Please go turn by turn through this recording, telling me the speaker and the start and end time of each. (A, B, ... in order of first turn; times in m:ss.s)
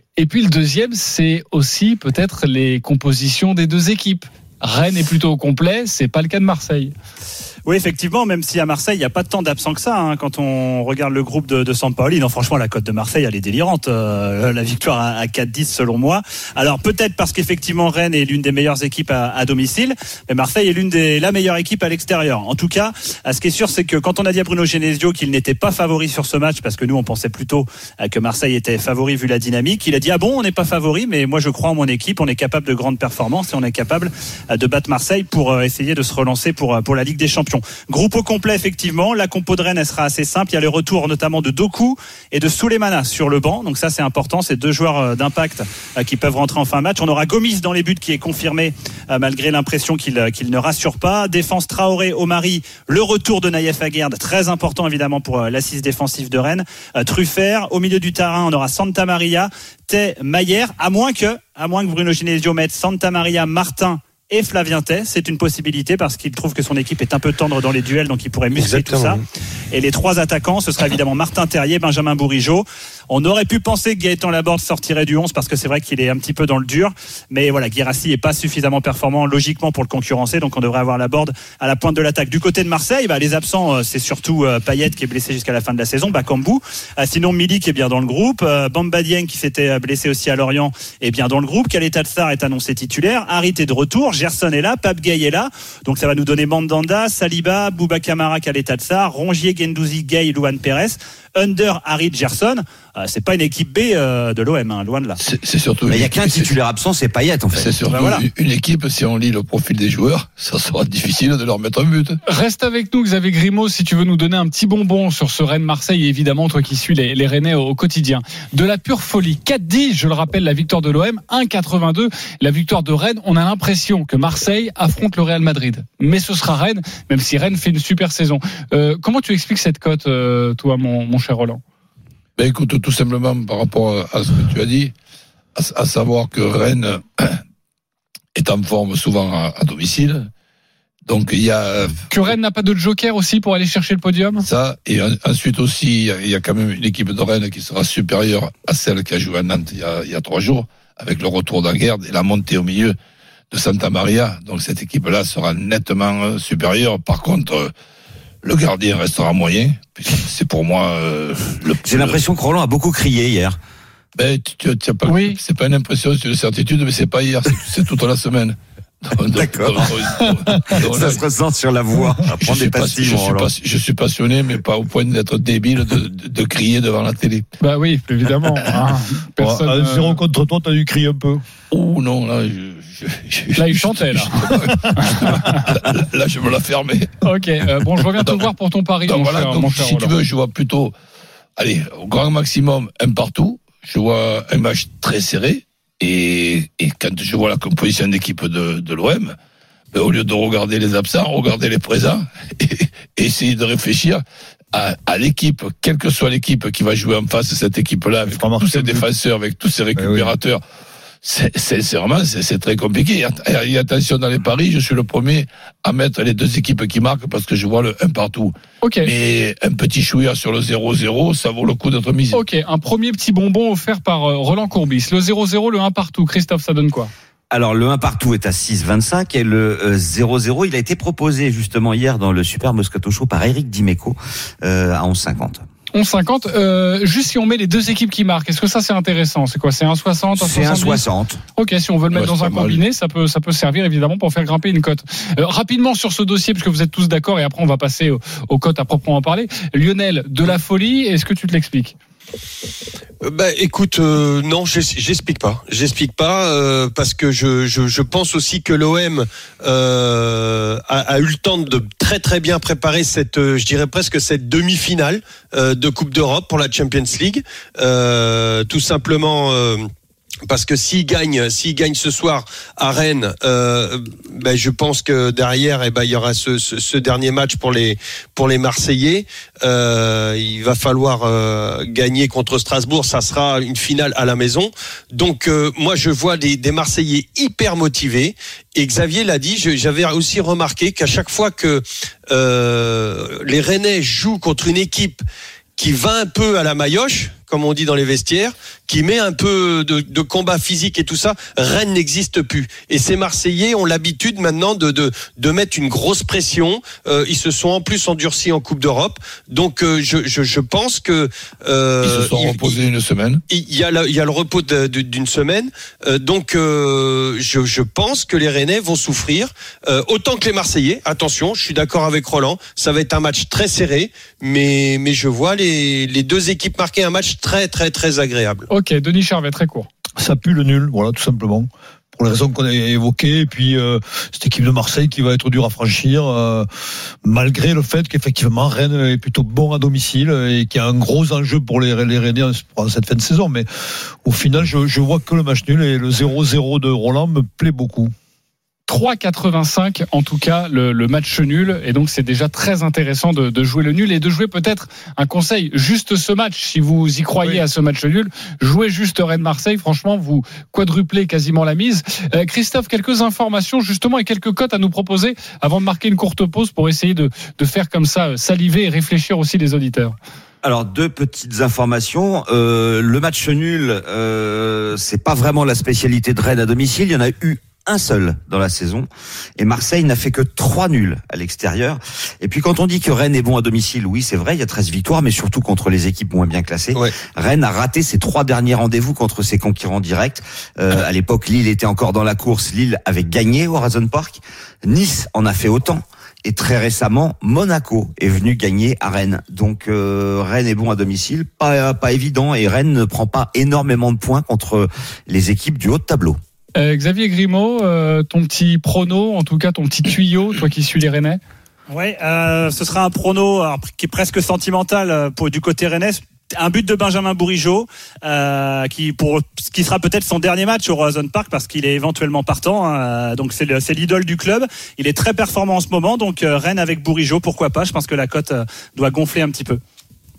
0:00.2-0:06.9 A
0:07.7-1:45.2 B
1:08.5-1:09.2 C
1:45.2-1:46.5 D
1:45.9-1:47.8 E
1:47.6-1:52.2 D
1:47.9-1:48.2 B
1:52.3-2:11.6 A
2:12.4-2:14.9 D
2:15.6-2:17.4 D
2:18.4-2:20.3 D
2:21.1-2:22.1 D
2:22.1-2:24.5 A
2:24.4-2:33.0 D
2:33.5-2:37.7 D
2:38.4-2:42.2 D
2:41.8-2:43.6 E
2:44.2-2:51.2 D
2:45.1-2:45.4 A
2:49.4-2:50.2 E
2:50.7-2:53.5 E
2:52.4-2:57.4 D
2:57.6-3:00.2 A
2:59.4-3:01.4 F
3:01.7-3:07.2 D
3:03.6-3:05.6 A
3:07.2-3:10.1 A
3:08.0-3:08.5 D
3:09.1-3:10.9 D
3:11.6-3:19.4 D
3:19.9-3:30.6 D
3:28.2-3:29.1 F
3:30.0-3:30.4 F
3:31.2-3:42.4 D
3:38.8-3:39.1 A
3:42.3-3:47.1 A
3:47.5-3:55.6 E
3:55.9-4:01.0 A
4:00.4-4:01.4 E
4:01.6-4:12.0 A
4:02.1-4:02.8 D
4:13.2-4:29.9 C
4:30.5-4:55.2 C
4:55.8-5:12.8 C
5:12.0-5:13.4 D
5:13.5-5:28.7 C
5:28.7-5:29.9 A
5:30.2-5:36.7 F
5:37.2-5:43.7 F
5:44.2-5:48.1 F
5:48.9-6:10.2 A
6:10.6-6:46.4 E
6:46.8-6:51.4 A
6:51.9-7:09.8 B